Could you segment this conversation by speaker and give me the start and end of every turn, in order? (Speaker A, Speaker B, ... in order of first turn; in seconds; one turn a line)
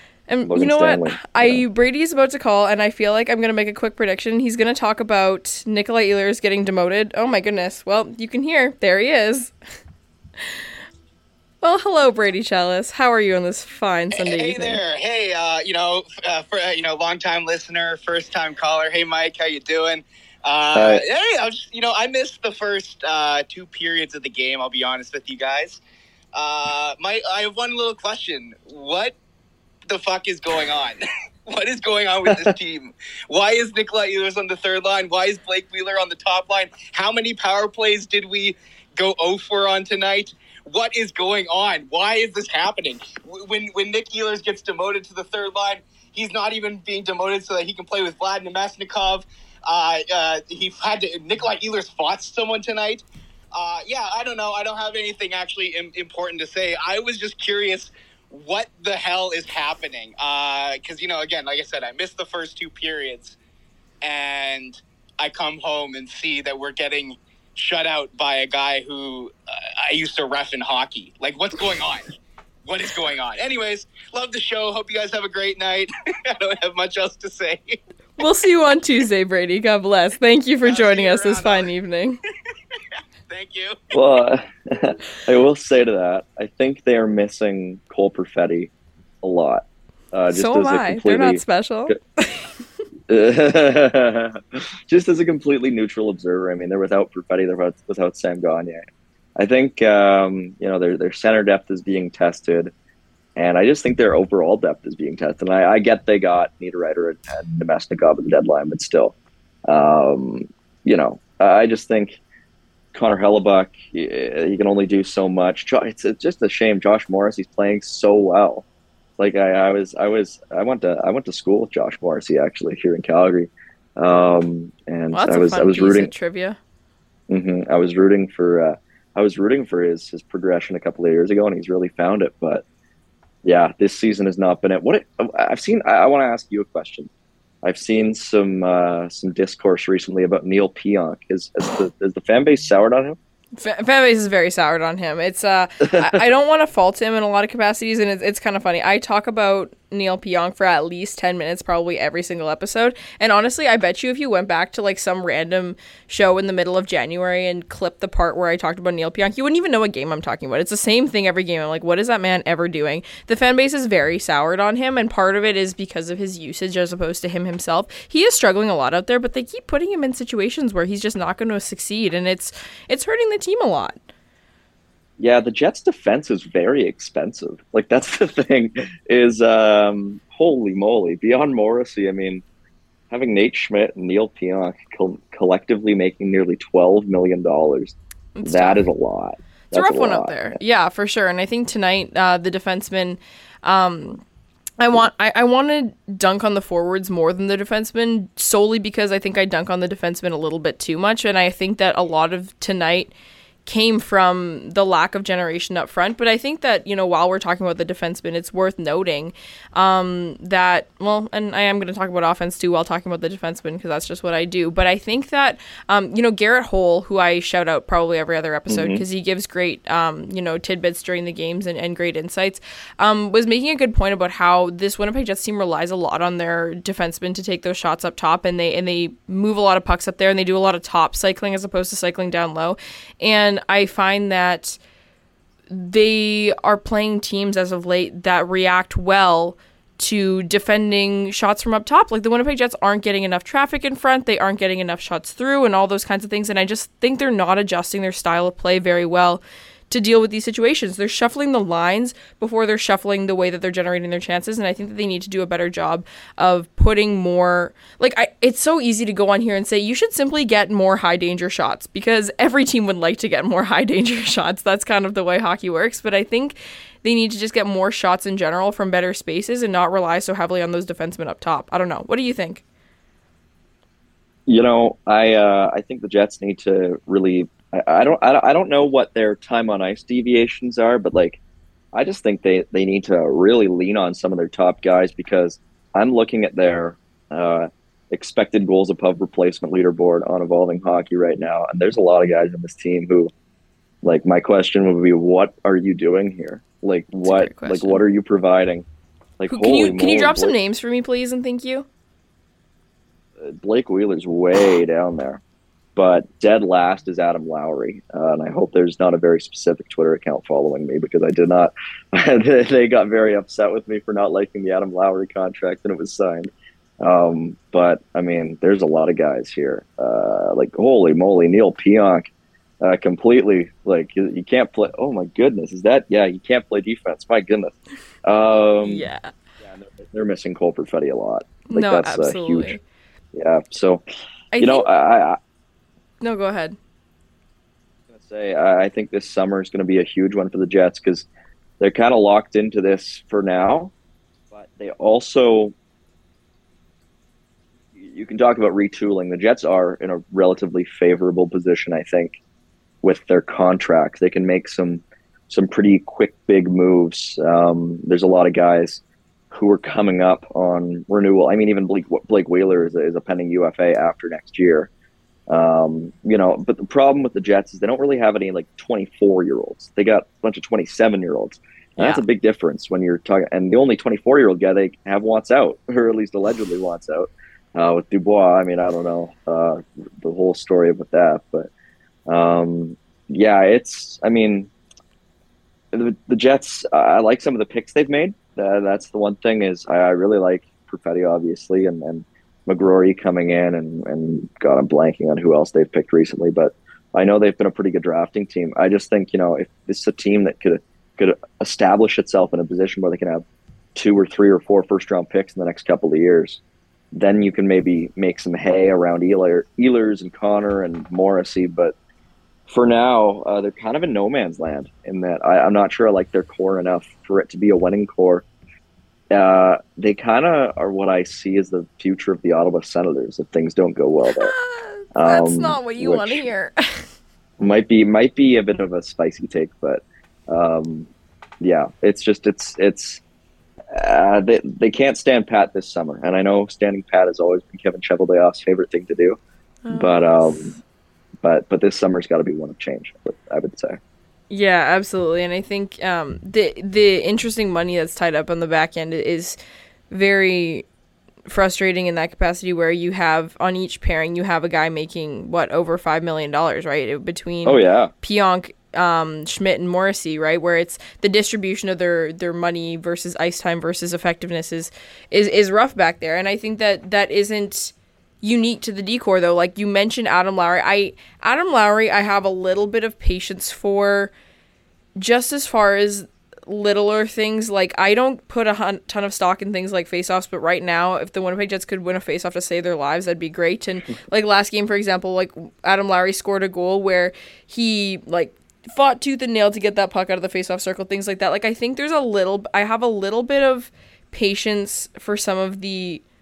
Speaker A: 0.3-9.5
Speaker B: 0.5-1.6
Speaker A: 11.6-14.8
Speaker C: 14.1-25.8
Speaker B: 20.7-21.0
Speaker C: 26.3-29.2
Speaker C: 29.9-53.0
Speaker B: 32.2-32.5
Speaker C: 53.5-63.4
Speaker C: 64.0-77.8
Speaker A: 78.2-82.2
Speaker C: 80.7-81.7
Speaker C: 83.3-83.9
Speaker B: 83.9-88.7
Speaker B: 89.2-92.0
Speaker A: 90.3-92.5
Speaker B: 93.1-98.8
Speaker B: 99.3-102.7
Speaker B: 103.3-109.1
Speaker B: 109.7-112.2
Speaker B: 112.9-118.6
Speaker B: 119.2-126.1
Speaker A: 125.1-126.6
Speaker B: 127.3-132.6
Speaker B: 133.4-137.1
Speaker B: 137.6-143.2
Speaker A: 143.6-174.0
Speaker B: 175.2-182.4
Speaker B: 183.1-190.4
Speaker A: 188.3-188.8
Speaker A: 189.7-194.2
Speaker A: 194.8-203.1
Speaker A: 203.7-234.8
Speaker B: 218.7-219.0
Speaker A: 235.7-272.6
Speaker B: 274.5-281.4
Speaker B: 281.9-293.3
Speaker B: 294.0-298.9
Speaker A: 297.2-298.0
Speaker B: 299.4-300.6
Speaker A: 299.5-301.9
Speaker B: 303.4-305.4
Speaker B: 305.9-322.2
Speaker B: 322.8-329.1
Speaker A: 328.8-329.3
Speaker B: 329.6-332.7
Speaker A: 331.7-332.8
Speaker B: 333.3-334.0
Speaker A: 334.5-334.9
Speaker B: 334.6-335.4
Speaker A: 336.2-336.8
Speaker B: 338.1-341.3
Speaker B: 341.8-343.9
Speaker B: 344.5-345.7
Speaker B: 347.9-352.3
Speaker B: 353.0-364.9
Speaker B: 365.5-381.7
Speaker A: 372.0-372.2
Speaker B: 382.3-384.7
Speaker B: 385.9-403.4
Speaker B: 403.9-406.6
Speaker B: 407.1-411.9
Speaker B: 412.7-418.4
Speaker B: 419.3-424.5
Speaker A: 424.2-427.1
Speaker B: 425.1-426.4
Speaker B: 427.6-431.1
Speaker B: 431.6-433.2
Speaker B: 433.9-439.4
Speaker A: 439.8-440.6
Speaker B: 439.9-440.7
Speaker B: 441.4-444.0
Speaker A: 444.5-449.6
Speaker A: 450.1-450.9
Speaker A: 451.5-474.3
Speaker B: 457.6-458.1
Speaker A: 475.1-496.2